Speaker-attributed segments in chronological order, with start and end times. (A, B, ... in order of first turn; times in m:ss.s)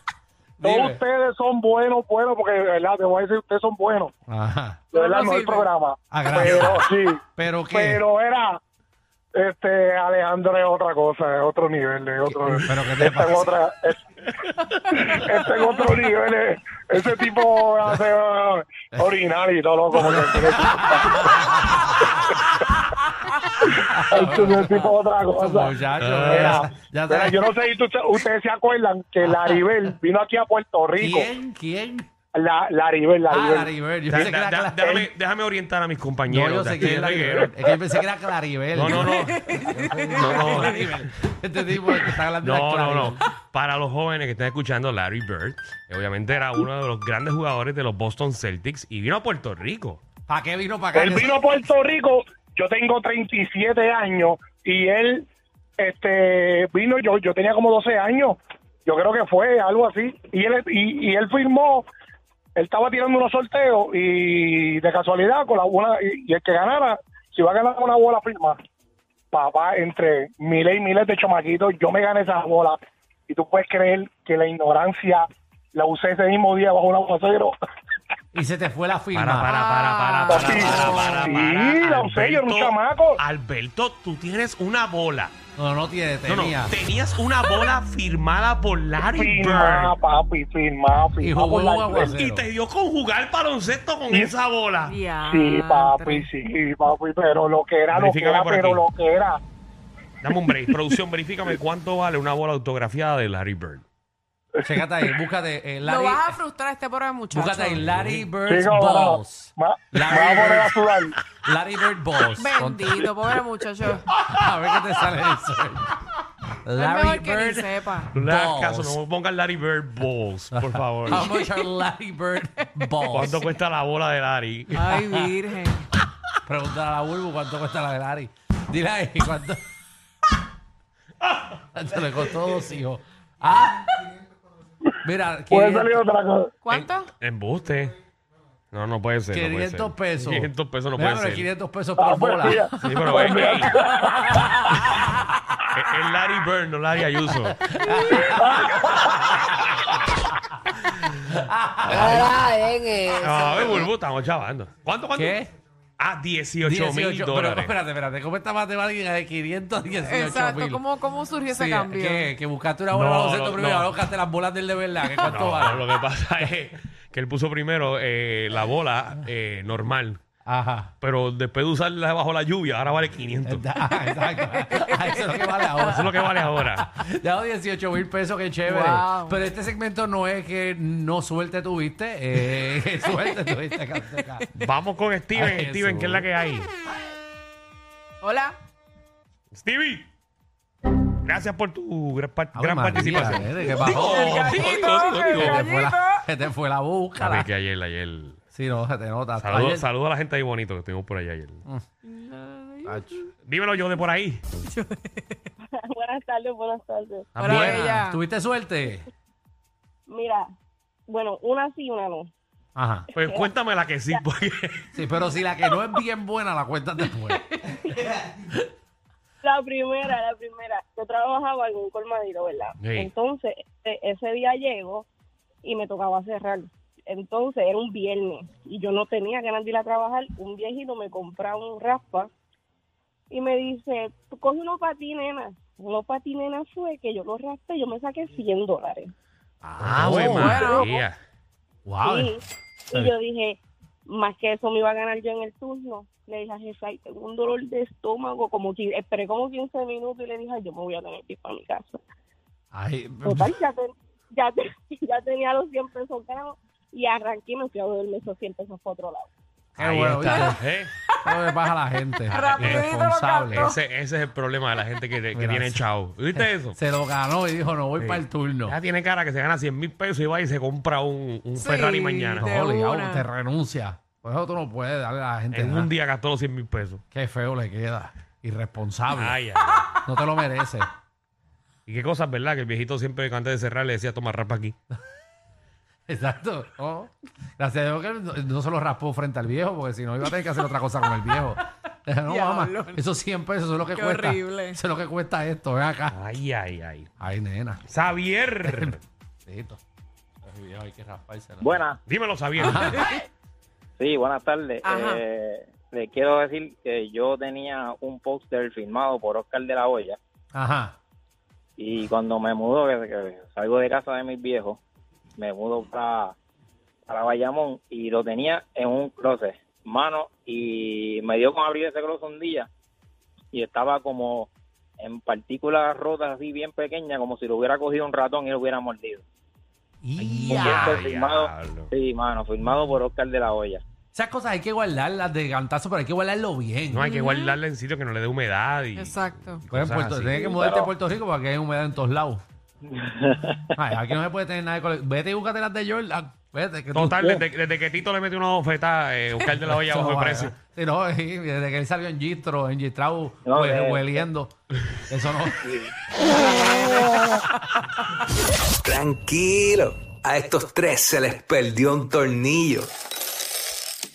0:00.6-0:01.0 A
0:00.6-0:04.1 B
0:04.3-0:04.9 A
0:04.9-0:05.7 C
0:04.9-0:08.6 B
0:06.1-0:08.0 A
0:09.3-0:14.0 B
0:12.2-0:13.5 A
0:15.1-0:21.4 B
0:20.0-0:22.7 A
0:23.6-0:27.4 A
0:24.1-0:31.3 B
0:26.0-0:26.7 D
0:29.2-0:29.9 A
0:31.0-0:32.1 A
0:32.3-0:33.7 B
0:33.3-0:35.0 A
0:34.1-0:37.7 D
0:36.3-0:43.2 A
0:38.7-0:40.9 D
0:39.0-0:40.9 C
0:42.4-0:50.0 D
0:50.3-0:51.4 A
0:50.9-0:55.2 B
0:55.8-1:01.9 B
1:02.6-1:08.6 B
1:09.3-1:17.5 B
1:18.3-1:19.5 A
1:19.1-1:25.3 D
1:19.5-1:20.9 C
1:20.5-1:21.2 A
1:20.5-1:23.2 B
1:25.6-1:26.7 A
1:26.2-1:30.0 D
1:29.1-1:32.1 B
1:31.2-1:32.5 A
1:32.0-1:34.9 D
1:34.8-1:36.3 C
1:35.3-1:39.4 B
1:37.9-1:38.8 D
1:40.2-1:43.8 D
1:44.6-1:46.4 A
1:45.8-1:47.8 C
1:47.3-1:50.8 A
1:47.8-1:48.2 D
1:48.5-1:51.1 B
1:51.3-1:53.0 A
1:52.4-1:54.1 C
1:54.2-1:59.0 A
1:56.8-1:58.1 C
1:58.1-2:01.2 D
2:00.5-2:03.4 A
2:01.1-2:01.7 C
2:02.7-2:03.3 C
2:03.1-2:04.9 D
2:04.7-2:05.9 C
2:04.9-2:05.3 A
2:06.4-2:09.6 A
2:11.7-2:13.9 A
2:15.0-2:16.0 A
2:15.5-2:16.5 B
2:16.6-2:17.1 C
2:16.7-2:17.9 D
2:18.7-2:21.5 D
2:19.3-2:23.6 A
2:22.0-2:24.3 B
2:22.8-2:23.7 D
2:24.3-2:24.9 A
2:25.7-2:27.6 D
2:27.5-2:29.8 A
2:28.1-2:29.2 B
2:30.7-2:32.5 A
2:32.0-2:33.7 E
2:33.1-2:35.4 D
2:35.1-2:35.5 A
2:36.0-2:37.7 D
2:36.6-2:40.8 A
2:40.0-2:42.3 C
2:41.5-2:45.9 A
2:42.9-2:43.9 D
2:45.2-2:50.2 D
2:50.4-2:50.9 A
2:51.0-2:53.6 D
2:53.4-3:04.6 A
2:54.3-2:55.8 C
2:55.8-2:56.9 D
2:58.6-2:59.4 C
3:04.6-3:06.7 D
3:05.3-3:06.3 A
3:08.2-3:08.6 C
3:09.5-3:10.1 D
3:11.2-3:15.6 D
3:12.5-3:14.6 A
3:13.7-3:16.2 C
3:15.2-3:17.5 A
3:17.2-3:18.4 D
3:18.5-3:19.8 A
3:19.4-3:21.6 D
3:22.0-3:23.2 C
3:22.8-3:23.2 A
3:23.4-3:24.4 D
3:24.6-3:25.4 C
3:25.7-3:27.3 F
3:27.4-3:27.9 D
3:27.4-3:29.1 A
3:27.4-3:28.2 C
3:30.1-3:30.5 F
3:31.1-3:32.3 F
3:32.8-3:33.1 A
3:33.1-3:35.0 D
3:33.2-3:33.5 F
3:34.9-3:37.6 A
3:39.4-3:45.0 F
3:42.8-3:43.1 D
3:45.6-3:52.3 F
3:53.3-3:59.1 F
3:59.6-4:00.8 A
3:59.8-4:01.2 D
4:00.3-4:00.8 C
4:00.8-4:01.0 F
4:01.8-4:02.3 A
4:02.0-4:03.6 F
4:04.1-4:12.0 F
4:12.7-4:13.5 A
4:13.2-4:19.3 F
4:19.8-4:20.6 A
4:19.8-4:20.9 D
4:20.3-4:20.5 C
4:21.1-4:21.5 C
4:21.2-4:23.7 A
4:22.3-4:23.8 C
4:22.4-4:22.8 D
4:23.5-4:26.8 D
4:25.3-4:28.8 A
4:28.0-4:32.5 D
4:31.5-4:33.2 C
4:32.4-4:35.9 A
4:35.5-4:37.0 D
4:37.1-4:39.4 A
4:39.1-4:40.0 D
4:40.0-4:40.9 A
4:41.9-4:44.7 D
4:46.1-4:56.2 A
4:52.3-4:53.0 C
4:54.0-4:54.8 C
4:56.1-4:57.1 D
4:57.2-4:57.8 A
4:57.9-4:59.0 D
4:58.6-4:59.0 A
4:59.5-4:59.8 A
5:00.4-5:01.8 A
5:01.6-5:02.0 G
5:02.0-5:03.0 D
5:02.6-5:03.1 A
5:02.8-5:03.2 C
5:04.0-5:10.2 G
5:04.8-5:05.2 C
5:10.5-5:10.9 A
5:11.8-5:14.8 G
5:15.4-5:16.3 G
5:17.1-5:22.7 G
5:23.5-5:29.2 G
5:30.0-5:31.0 A
5:30.2-5:33.8 G
5:30.3-5:31.9 D
5:34.1-5:37.1 A
5:36.9-5:40.4 D
5:37.0-5:37.6 C
5:39.0-5:39.6 C
5:39.7-5:42.4 A
5:40.3-5:40.9 G
5:42.9-5:43.6 G
5:43.7-5:47.4 A
5:46.9-5:50.5 D
5:49.5-5:54.5 A
5:53.4-5:54.2 G
5:55.1-5:55.7 A
5:55.6-5:55.9 G
5:56.2-5:57.5 C
5:58.8-6:02.9 E